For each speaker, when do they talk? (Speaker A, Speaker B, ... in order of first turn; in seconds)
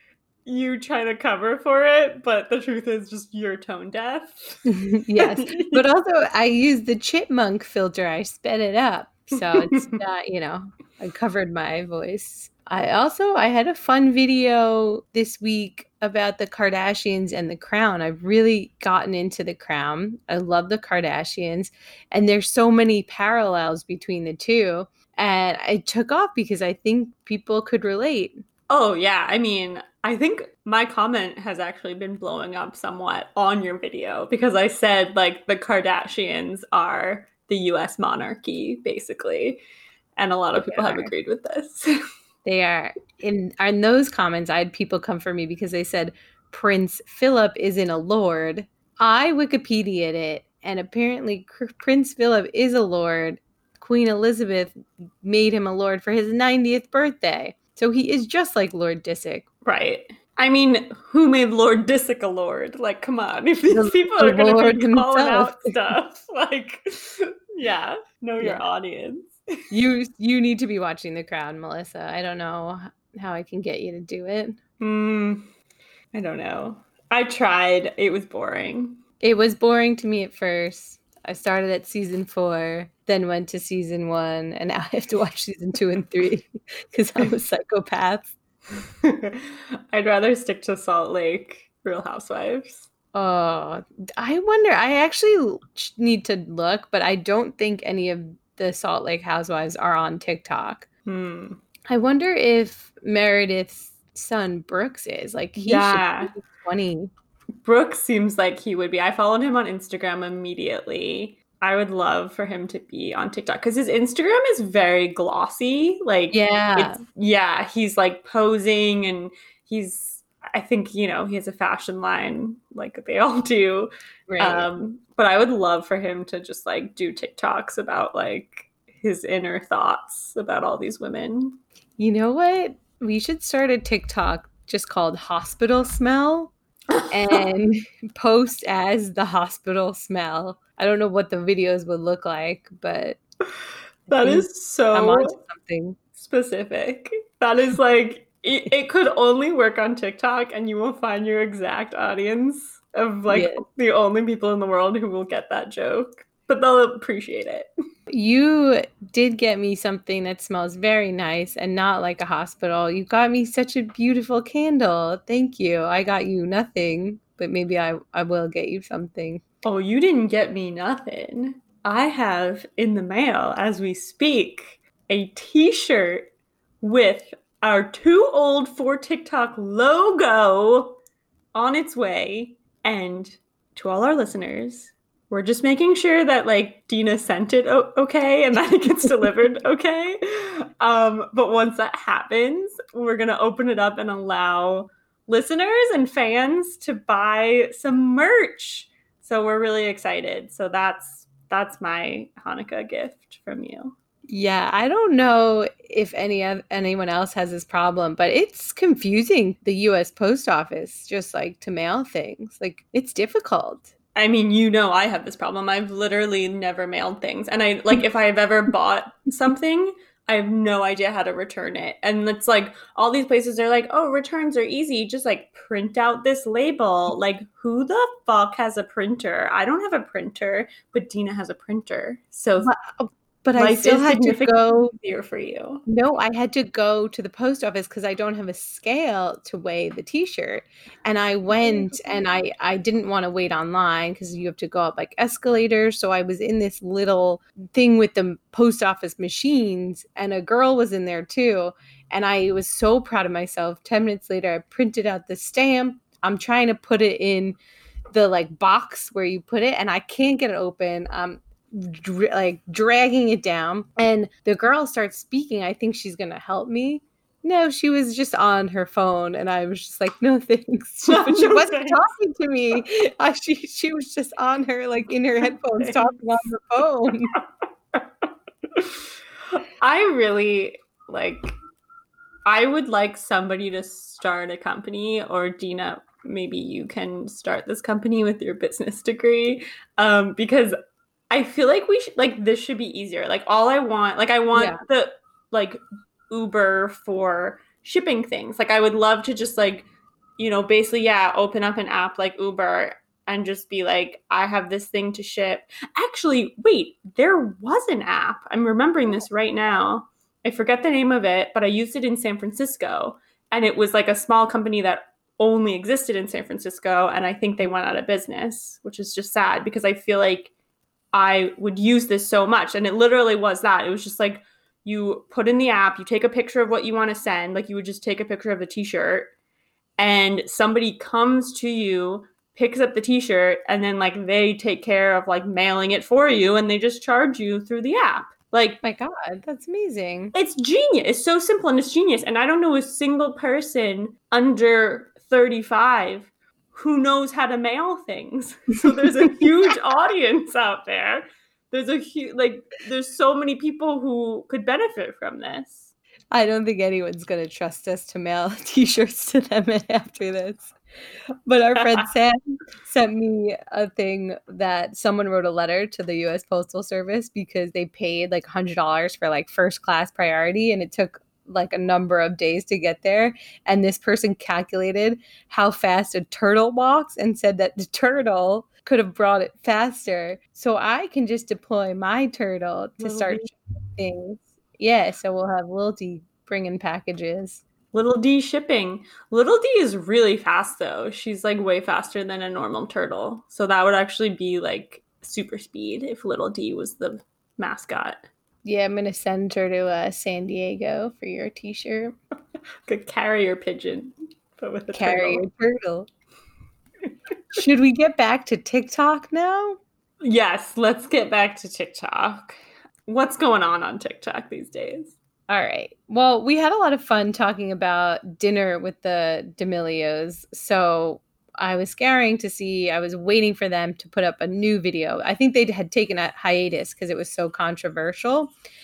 Speaker A: 0.5-5.8, 9.3-10.0, 28.7-39.6, 40.2-41.9, 59.6-69.4, 74.8-75.5, 76.1-79.0, 89.0-92.9, 101.1-101.6, 105.6-106.3, 107.6-131.6, 136.9-137.4, 144.1-145.4, 146.2-157.7, 169.6-176.3, 176.8-181.0, 181.5-203.9, 214.2-232.7, 233.6-235.8, 241.5-242.0, 271.1-272.0, 275.8-276.1, 279.8-281.6, 282.5-290.8, 291.3-299.9, 300.4-320.5, 321.1-329.3, 330.0-338.8, 340.3-355.9, 361.8-362.1, 383.0-383.5, 387.9-398.2, 402.9-405.4, 410.2-415.2
Speaker B: 4.7-28.4, 40.6-41.1, 42.5-59.5, 63.7-65.7, 69.7-74.6, 79.2-88.3, 93.1-100.9, 101.9-107.1, 116.3-117.0, 124.3-124.7, 132.0-136.5, 137.1-143.2, 144.1-146.0, 153.3-153.7, 158.1-169.4, 204.3-213.9, 232.6-234.9, 235.9-257.6, 258.1-277.4, 294.5-294.8, 338.8-340.4, 356.3-360.8, 361.5-387.6, 398.6-402.2, 404.9-406.1, 407.5-409.8, 415.5-428.5